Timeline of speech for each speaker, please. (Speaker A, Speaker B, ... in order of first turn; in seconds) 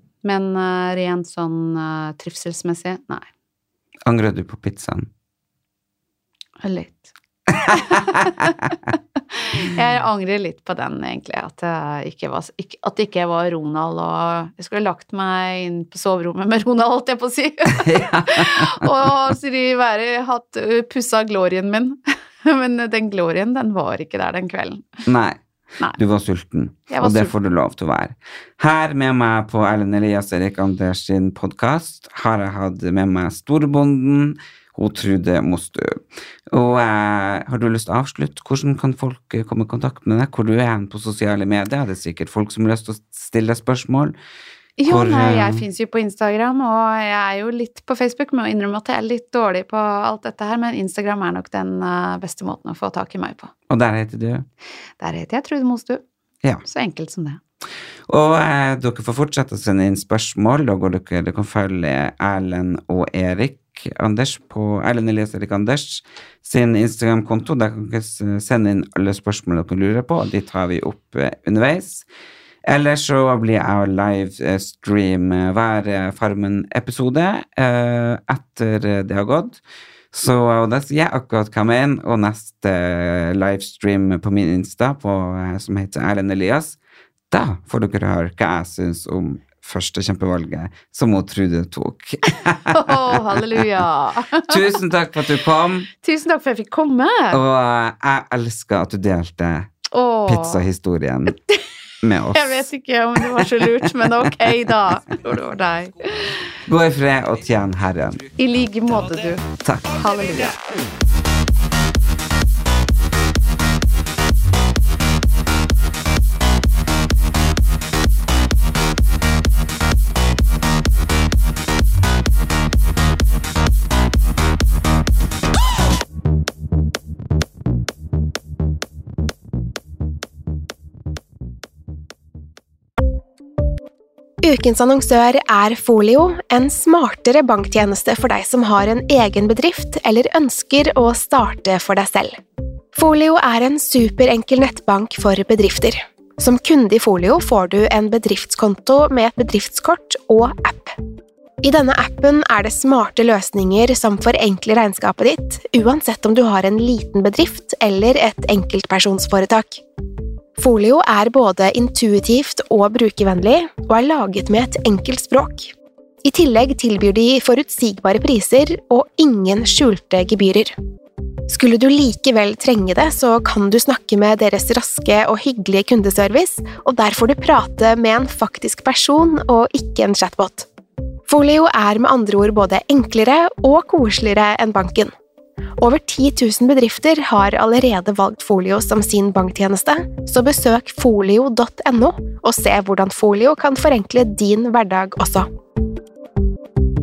Speaker A: 0.2-3.2, 6.6-8.5, 9.3-25.0, 26.9-27.3, 44.8-53.5, 55.0-56.0, 56.6-57.4, 92.7-94.6, 95.9-97.4, 99.9-100.6, 102.3-106.5, 108.4-110.6
Speaker B: 4.0-5.1, 17.7-19.1, 25.1-25.4, 25.9-44.1, 44.8-45.6, 53.7-54.5, 58.1-72.0, 72.7-79.6, 80.1-86.8, 87.3-93.7, 94.5-95.9, 97.3-99.7, 100.2-101.4, 102.0-102.7, 103.2-104.5, 106.6-108.3, 109.5-110.0
Speaker C: 134.4-142.4, 142.9-151.0, 151.6-159.8, 160.6-165.7, 166.2-170.8, 171.5-180.7, 181.3-185.1, 185.8-195.5